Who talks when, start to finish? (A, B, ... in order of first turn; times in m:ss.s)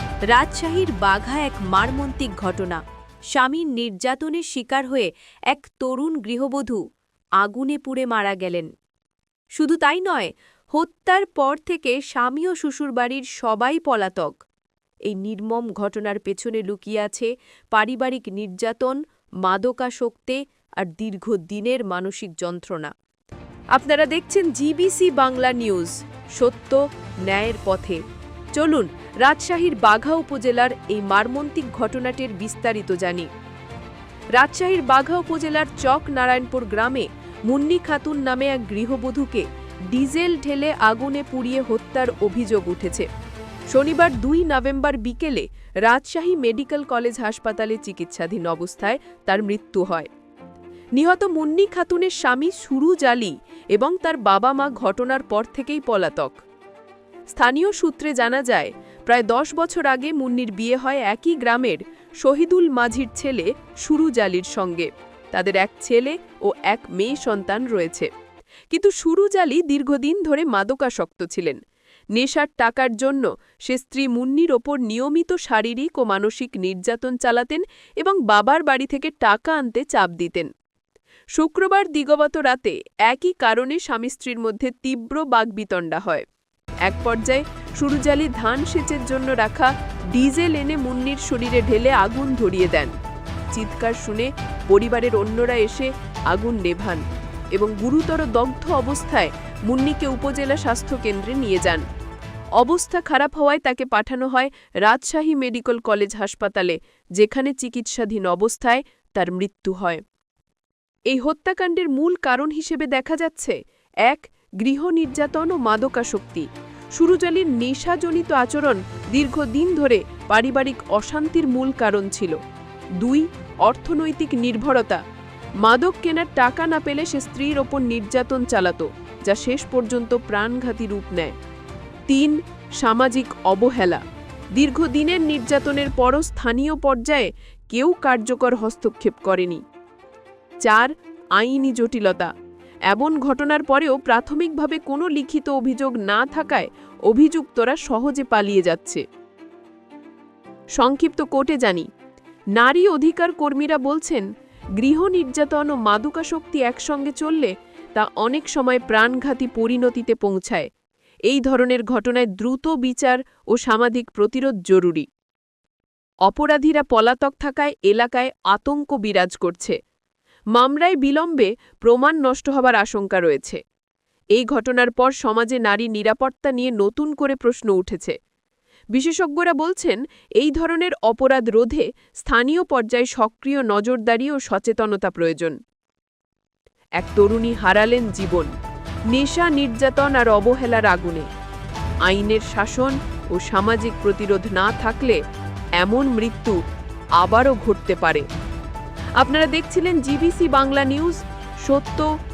0:00.3-0:06.8 A
0:07.4-0:08.7 A
0:09.6-0:14.4 A
0:15.1-0:22.9 A
0:23.7-0:28.0 A
0:28.5-0:33.3 A
0:34.3-0:43.1 A
0:43.7-0:50.1 A
0:51.0-0:56.4 A
0:57.3-1:08.1 A
1:08.7-1:11.6 A
1:12.1-1:20.5 A
1:21.4-1:26.2 A
1:26.8-1:32.9 A
1:33.5-1:41.8 A
1:42.6-1:50.0 A
1:51.1-2:02.4 A
2:03.0-2:05.0 A
2:05.6-2:11.3 A
2:12.1-2:14.0 A
2:14.5-2:19.6 A
2:20.6-2:22.3 A
2:22.9-2:29.0 A
2:30.8-2:31.9 A
2:32.6-2:34.2 A
2:34.8-2:40.7 A
2:41.3-2:45.1 A
2:46.2-2:49.8 A
2:50.6-2:53.6 A
2:54.4-2:58.2 A
2:59.0-3:05.6 A
3:07.0-3:08.5 A
3:09.1-3:11.3 A
3:12.1-3:15.2 A
3:15.8-3:16.6 A
3:17.2-3:18.2 A
3:19.2-3:22.1 A